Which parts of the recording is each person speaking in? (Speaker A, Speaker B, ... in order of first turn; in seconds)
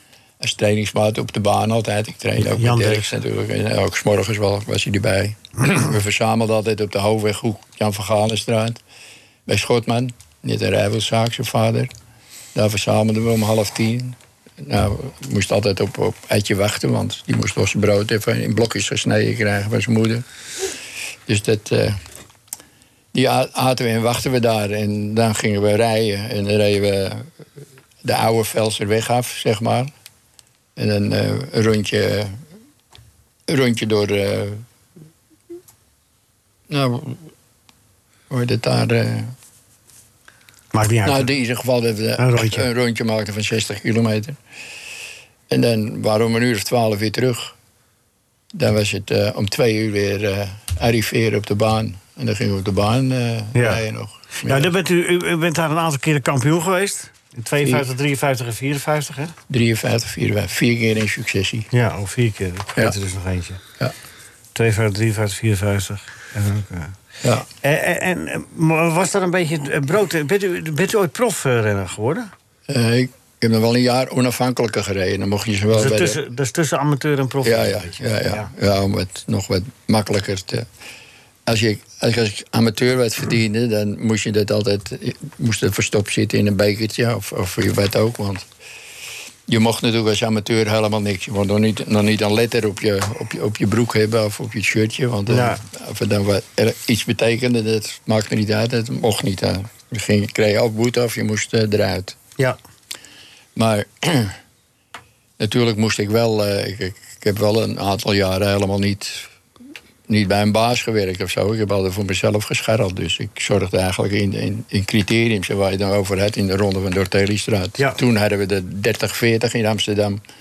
Speaker A: 0.4-8.8, 9.5-11.9, 12.6-20.2, 21.3-22.0, 23.1-27.3, 28.0-29.9, 30.8-32.4, 33.5-34.6, 36.7-37.3, 38.3-39.3, 41.0-44.4, 45.5-47.5, 48.5-54.7, 57.6-57.9, 59.5-61.7, 72.7-76.2, 77.4-80.7, 81.5-88.5, 89.5-102.2, 103.5-104.4, 105.4-109.3, 110.1-120.2
Speaker B: 2.4-3.2, 40.7-41.3, 42.2-42.7, 53.5-53.8, 54.4-59.4, 61.7-63.6, 64.5-67.0, 67.6-72.3, 75.7-78.5, 95.3-95.6